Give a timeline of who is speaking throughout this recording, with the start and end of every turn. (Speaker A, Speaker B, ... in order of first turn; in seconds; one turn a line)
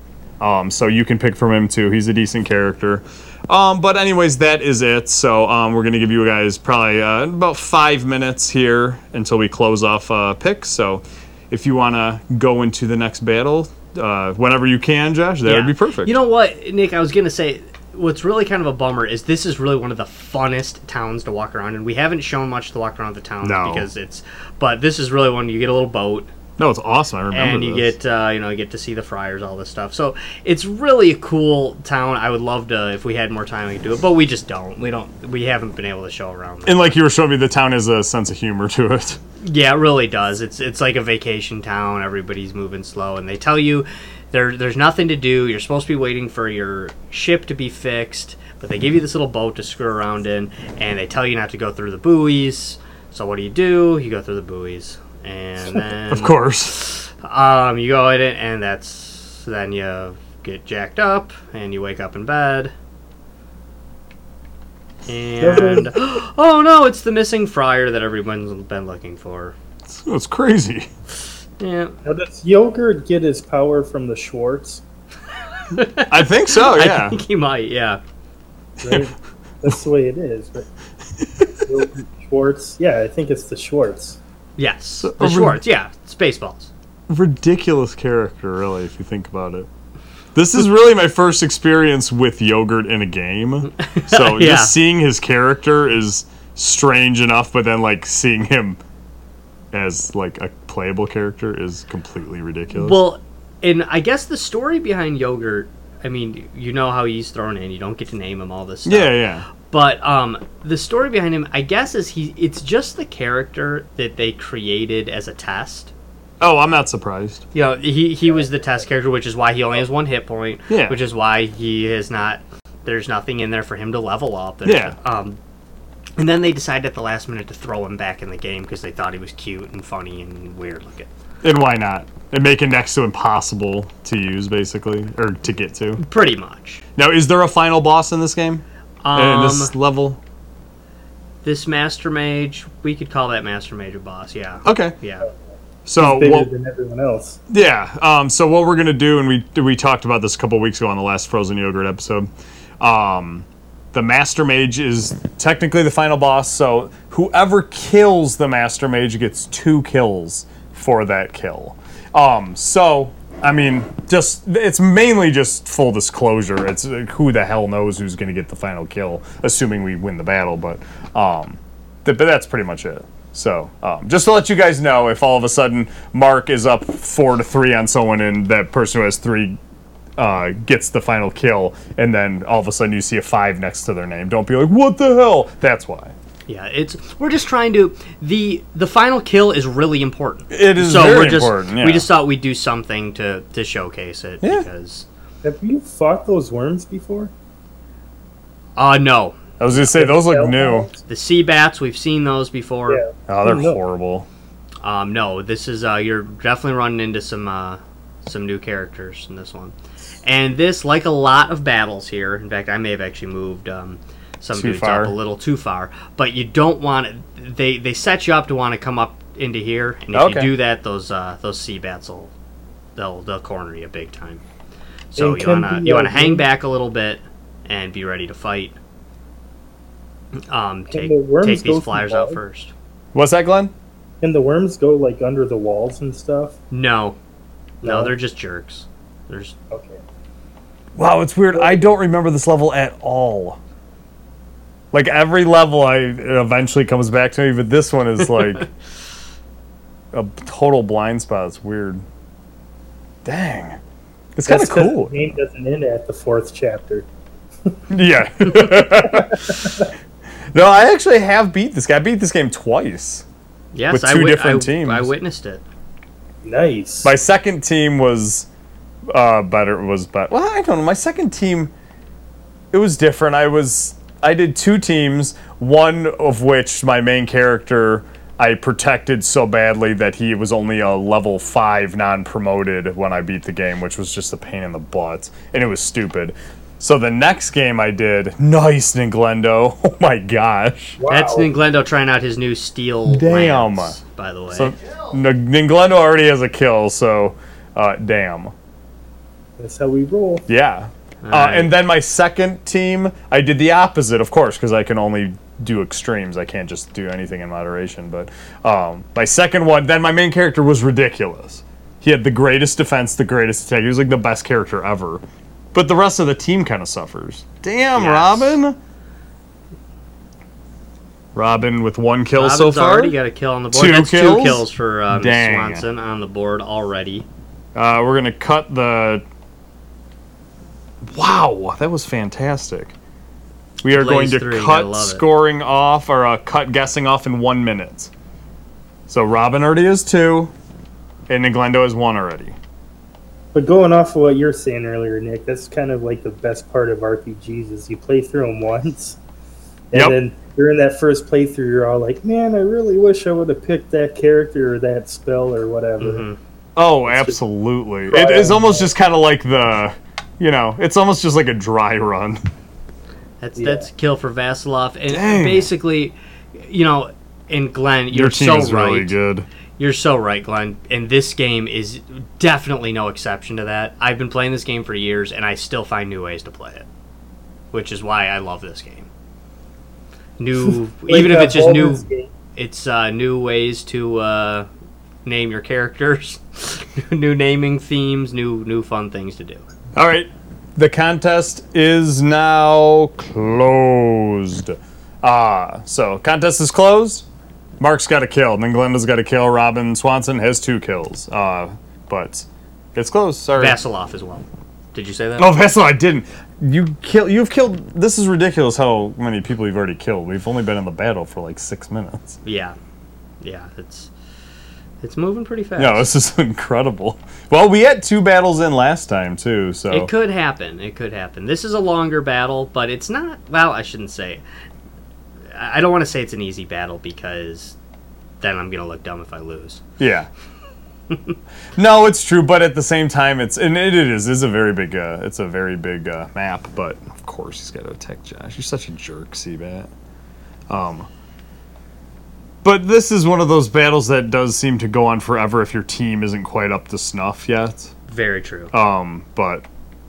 Speaker A: 0.4-16.2
Speaker B: 15.4-26.3
Speaker A: 23.4-23.9
Speaker A: 26.6-27.9
Speaker B: 27.3-37.0
Speaker A: 36.6-39.2
Speaker B: 39.4-62.7
Speaker A: 56.1-56.8
Speaker B: 65.0-69.5
Speaker C: 65.4-65.9
Speaker A: 69.9-70.9
Speaker B: 71.6-71.9
Speaker C: 72.0-74.8
Speaker B: 75.7-78.0
Speaker A: 76.1-77.2
Speaker C: 78.8-80.7
Speaker C: 81.5-84.2
Speaker B: 84.6-86.7
Speaker A: 85.0-85.6
Speaker A: 87.1-89.7
Speaker A: 90.3-98.8
Speaker B: 93.8-94.7
Speaker A: 99.7-103.0
Speaker B: 102.7-115.9
Speaker A: 108.8-109.5
Speaker A: 116.4-117.4
Speaker B: 117.5-125.4
Speaker A: 120.7-121.0
Speaker A: 124.6-125.0
Speaker B: 126.2-131.1
Speaker A: 131.4-136.0
Speaker B: 136.0-136.8
Speaker A: 136.9-140.2
Speaker B: 139.0-139.7
Speaker B: 141.4-145.3
Speaker A: 144.6-144.9
Speaker A: 145.8-146.5
Speaker C: 146.0-147.4
Speaker A: 147.5-152.3
Speaker A: 152.8-179.6
Speaker A: 180.2-186.1
Speaker B: 186.5-195.1
Speaker A: 190.5-192.1
Speaker C: 195.4-197.3
Speaker B: 198.8-199.4
Speaker A: 199.6-200.9
Speaker C: 199.7-201.0
Speaker B: 201.1-203.0
Speaker C: 202.9-203.8
Speaker A: 203.3-204.3
Speaker B: 204.8-222.3
Speaker A: 214.5-215.1
Speaker A: 220.1-220.5
Speaker B: 222.9-224.4
Speaker B: 225.1-228.8
Speaker C: 225.2-226.4
Speaker B: 230.5-232.7
Speaker C: 230.9-232.4
Speaker A: 233.1-233.7
Speaker C: 234.2-236.6
Speaker B: 236.7-237.2
Speaker B: 237.8-239.5
Speaker C: 237.8-238.1
Speaker C: 239.7-240.0
Speaker A: 240.9-243.6
Speaker C: 241.5-241.8
Speaker A: 244.9-248.7
Speaker A: 250.1-252.0
Speaker A: 253.2-253.8
Speaker A: 254.3-255.1
Speaker C: 254.4-257.1
Speaker A: 257.9-259.4
Speaker C: 258.6-259.9
Speaker A: 260.5-263.2
Speaker B: 263.7-265.6
Speaker A: 263.9-265.1
Speaker C: 266.4-267.1
Speaker A: 267.0-268.5
Speaker A: 269.1-271.7
Speaker A: 272.7-291.0
Speaker C: 291.0-291.5
Speaker B: 291.1-294.7
Speaker A: 293.1-294.0
Speaker A: 294.5-298.5
Speaker C: 299.6-300.4
Speaker A: 300.5-315.2
Speaker B: 301.2-301.7
Speaker A: 315.7-318.8
Speaker B: 317.9-318.6
Speaker A: 321.3-323.2
Speaker B: 322.3-327.3
Speaker A: 323.7-325.9
Speaker A: 327.7-329.2
Speaker A: 331.0-332.9
Speaker A: 333.8-338.1
Speaker B: 333.9-335.2
Speaker A: 339.1-340.5
Speaker A: 341.3-342.6
Speaker C: 343.5-349.2
Speaker C: 349.9-356.2
Speaker B: 356.0-356.4
Speaker A: 356.8-362.4
Speaker C: 357.1-357.4
Speaker C: 358.1-358.9
Speaker B: 363.4-369.1
Speaker C: 363.6-363.9
Speaker A: 365.1-365.7
Speaker A: 368.1-369.5
Speaker B: 369.8-376.9
Speaker B: 377.7-379.1
Speaker B: 380.4-384.7
Speaker C: 381.1-382.3
Speaker B: 385.2-389.6
Speaker A: 389.9-397.2
Speaker A: 397.8-403.8
Speaker B: 403.6-405.5
Speaker A: 405.4-412.4
Speaker B: 412.4-412.8
Speaker B: 413.4-414.1
Speaker B: 415.0-416.1
Speaker A: 415.8-420.1
Speaker B: 419.9-424.4
Speaker B: 425.5-427.8
Speaker B: 428.4-429.8
Speaker A: 430.0-430.3
Speaker B: 431.1-431.3
Speaker A: 431.8-439.9
Speaker A: 440.7-441.1
Speaker A: 442.6-447.9
Speaker B: 448.1-448.7
Speaker A: 448.7-449.6